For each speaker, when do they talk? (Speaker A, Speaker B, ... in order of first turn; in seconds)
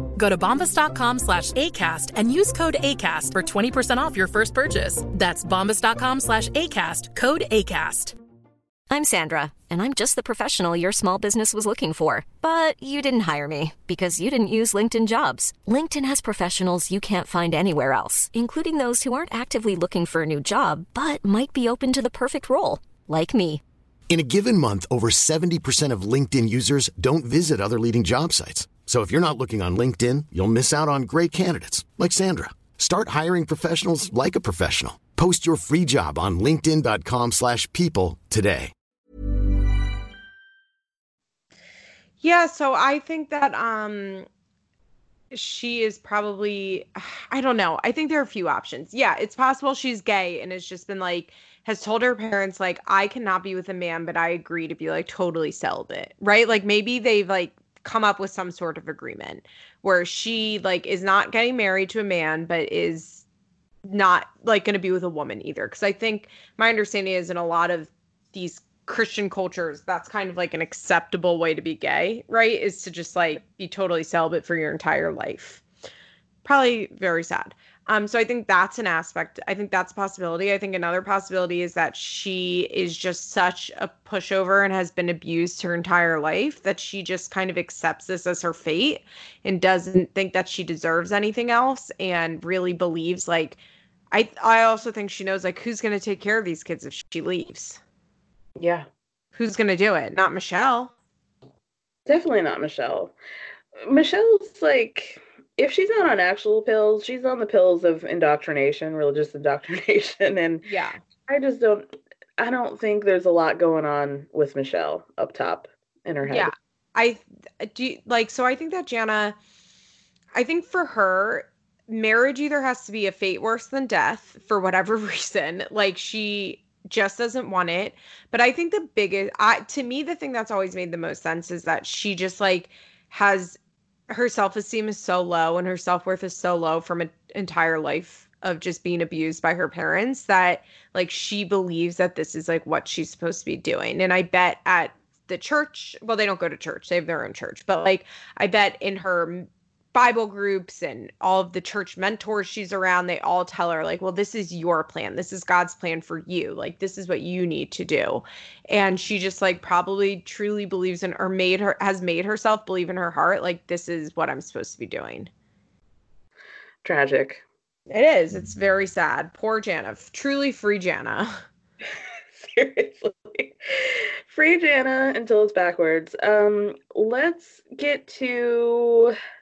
Speaker A: 0.1-8.1
Speaker B: 8.9-23.6
Speaker C: 24.1-38.7
Speaker D: 42.2-44.3, 45.3-63.2, 63.9-75.6, 76.4-93.6, 94.1-97.8, 99.3-100.9, 110.6-111.0, 116.2-119.3, 120.3-133.6, 134.1-165.3, 167.9-171.4
Speaker E: 98.6-98.8, 102.0-103.1, 103.8-110.7, 111.3-111.8, 112.4-116.5, 166.8-167.4, 172.3-179.2